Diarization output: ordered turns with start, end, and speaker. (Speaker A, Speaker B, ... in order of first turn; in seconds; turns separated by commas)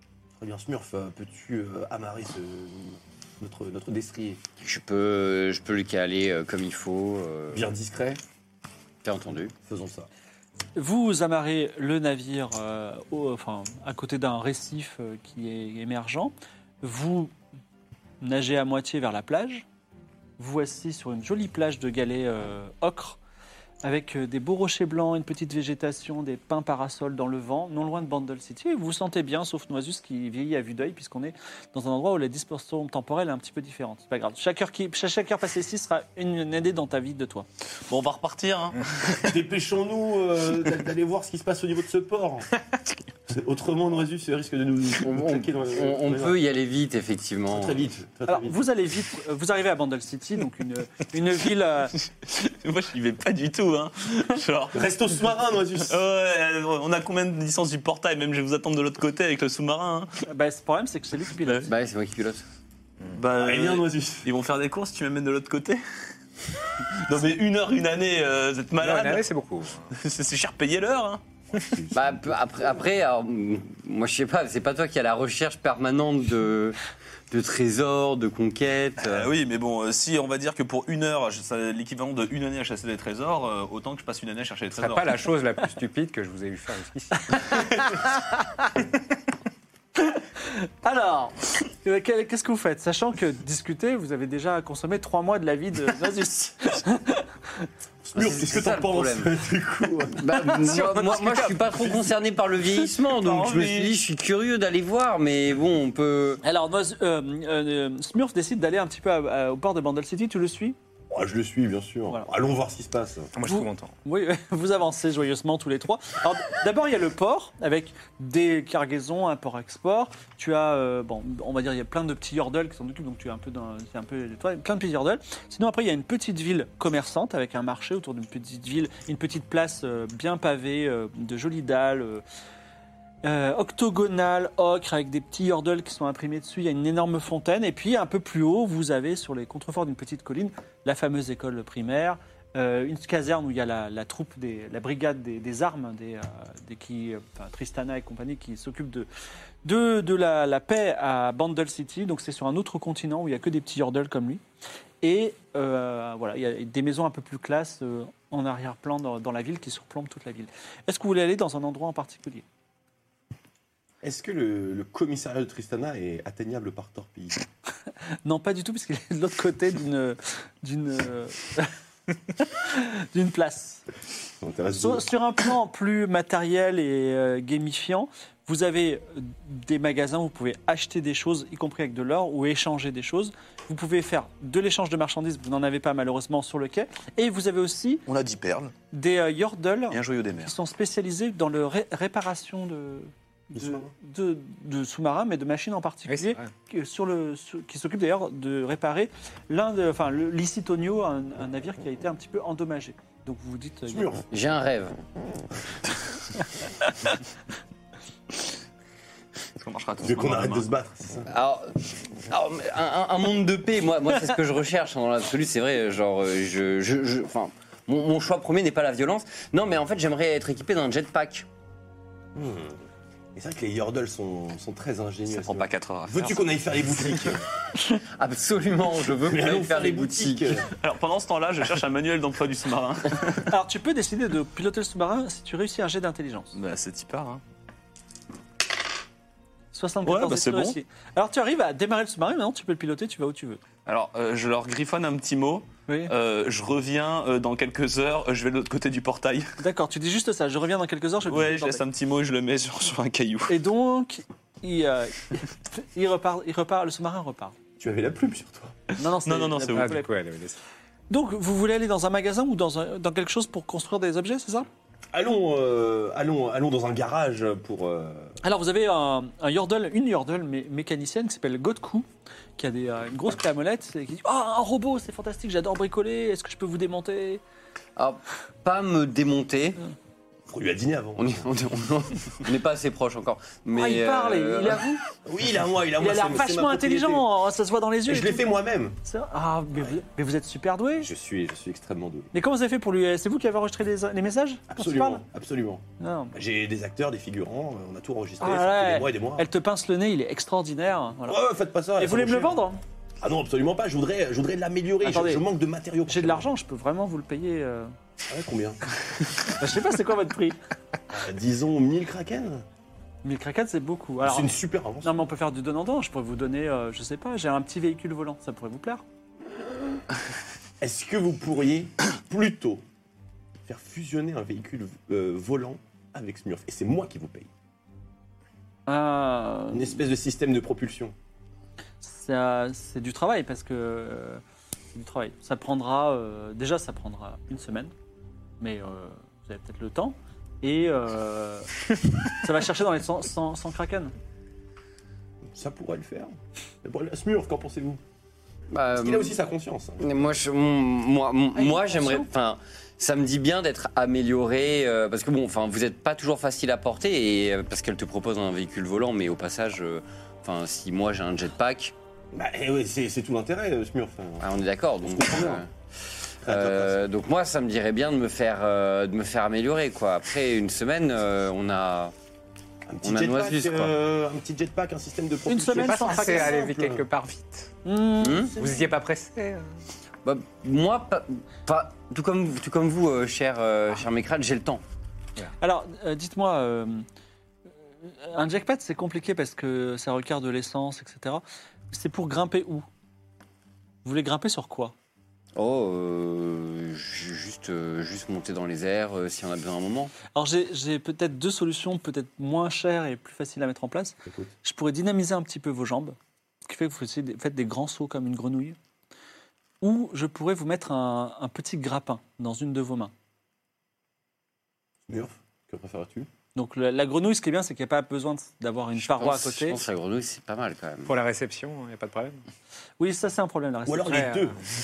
Speaker A: 0.4-4.4, Speaker B: 4.6-7.6, Speaker A: 7.5-8.2, Speaker B: 9.0-9.5, Speaker A: 9.7-10.1, Speaker C: 10.8-17.3, Speaker C: 18.2-19.6, Speaker C: 20.4-23.2, Speaker C: 23.8-37.5, Speaker D: 37.9-39.4, Speaker A: 39.2-42.5, Speaker A: 43.3-46.4, Speaker B: 45.0-47.9, Speaker A: 47.5-48.6, Speaker C: 48.3-51.9, Speaker D: 52.2-54.8, Speaker A: 54.7-56.0, Speaker D: 55.9-60.1, Speaker C: 60.3-61.7, Speaker B: 61.7-62.4, Speaker D: 63.1-65.8, Speaker A: 63.4-64.3, Speaker D: 67.0-69.3, Speaker E: 68.8-69.9, Speaker D: 69.9-71.2, Speaker A: 71.7-72.6, Speaker B: 71.9-76.8, Speaker B: 77.3-79.3, Speaker D: 79.0-85.2, Speaker E: 84.7-87.7, Speaker C: 87.3-87.9, Speaker C: 90.0-97.7, Speaker A: 98.0-100.6, Speaker B: 98.1-99.3, Speaker B: 100.2-106.4, Speaker D: 102.9-103.9, Speaker C: 106.4-110.8, Speaker A: 111.1-113.3, Speaker E: 113.3-113.9, Speaker C: 113.5-132.2, Speaker C: 133.2-149.1, Speaker C: 149.6-154.4, Speaker C: 155.0-162.4, Speaker A: 164.0-167.4, Speaker C: 168.2-171.7, Speaker C: 172.3-173.8, Speaker A: 174.4-175.1, Speaker C: 174.7-188.1, Speaker D: 188.1-188.7, Speaker C: 188.9-204.1, Speaker D: 189.9-190.5, Speaker A: 193.5-193.9, Speaker E: 196.1-196.5, Speaker A: 203.9-204.3, Speaker B: 204.3-205.0, Speaker D: 209.6-210.7, Speaker A: 210.0-211.3, Speaker B: 211.3-221.5, Speaker A: 222.3-222.8, Speaker A: 223.3-227.4, Speaker D: 225.2-227.0, Speaker B: 228.0-230.6, Speaker A: 229.2-230.7, Speaker D: 230.7-233.5, Speaker C: 233.5-236.5, Speaker D: 236.5-237.4, Speaker C: 239.7-243.6, Speaker D: 240.0-240.8, Speaker D: 243.9-249.5, Speaker C: 249.6-251.8, Speaker D: 251.3-253.5, Speaker C: 253.5-257.6, Speaker A: 257.8-258.8, Speaker C: 259.0-260.1, Speaker D: 259.2-260.0, Speaker E: 259.7-260.6, Speaker C: 261.1-264.7, Speaker A: 265.1-268.4, Speaker C: 268.4-272.1, Speaker C: 272.6-277.4, Speaker B: 278.0-279.8, Speaker A: 280.5-281.5, Speaker B: 281.2-284.8, Speaker C: 283.8-285.0, Speaker A: 285.2-287.3, Speaker C: 286.0-288.5, Speaker A: 288.1-289.0, Speaker C: 289.1-291.1, Speaker A: 291.0-292.3, Speaker C: 292.3-295.2, Speaker A: 294.7-295.8, Speaker C: 296.0-296.4, Speaker A: 296.3-299.5, Speaker C: 298.4-301.4, Speaker A: 301.3-302.6, Speaker C: 302.0-302.8, Speaker A: 303.2-306.5, Speaker C: 305.0-305.4, Speaker C: 306.1-307.9, Speaker A: 308.3-308.8, Speaker C: 309.6-310.6, Speaker A: 311.1-312.6, Speaker C: 313.2-319.0, Speaker A: 314.2-315.2, Speaker A: 320.8-322.8, Speaker A: 323.7-327.5, Speaker C: 328.9-330.0, Speaker A: 329.7-331.1, Speaker C: 332.0-334.4, Speaker C: 334.9-337.9, Speaker C: 338.6-341.7, Speaker C: 342.3-344.1, Speaker A: 345.4-346.3, Speaker A: 346.8-348.0, Speaker B: 348.7-349.4, Speaker A: 348.9-350.4, Speaker B: 350.0-361.9, Speaker C: 351.6-352.3, Speaker A: 362.3-365.6, Speaker B: 364.4-365.7, Speaker A: 366.4-367.1, Speaker B: 366.5-372.1, Speaker A: 372.9-377.0, Speaker B: 373.0-373.9, Speaker C: 375.5-376.6, Speaker E: 375.8-377.7, Speaker C: 377.9-378.5, Speaker B: 378.2-378.6, Speaker E: 378.6-379.8, Speaker B: 380.2-384.8, Speaker C: 385.6-387.1, Speaker C: 388.0-392.9, Speaker C: 394.0-394.9, Speaker B: 395.6-400.1, Speaker C: 400.4-406.2, Speaker A: 404.2-404.5, Speaker C: 406.7-408.8, Speaker C: 409.8-413.1, Speaker A: 415.1-416.3, Speaker C: 416.6-419.8, Speaker B: 419.1-421.1, Speaker E: 421.1-422.4, Speaker C: 423.0-424.4, Speaker A: 423.9-424.6, Speaker E: 424.1-424.5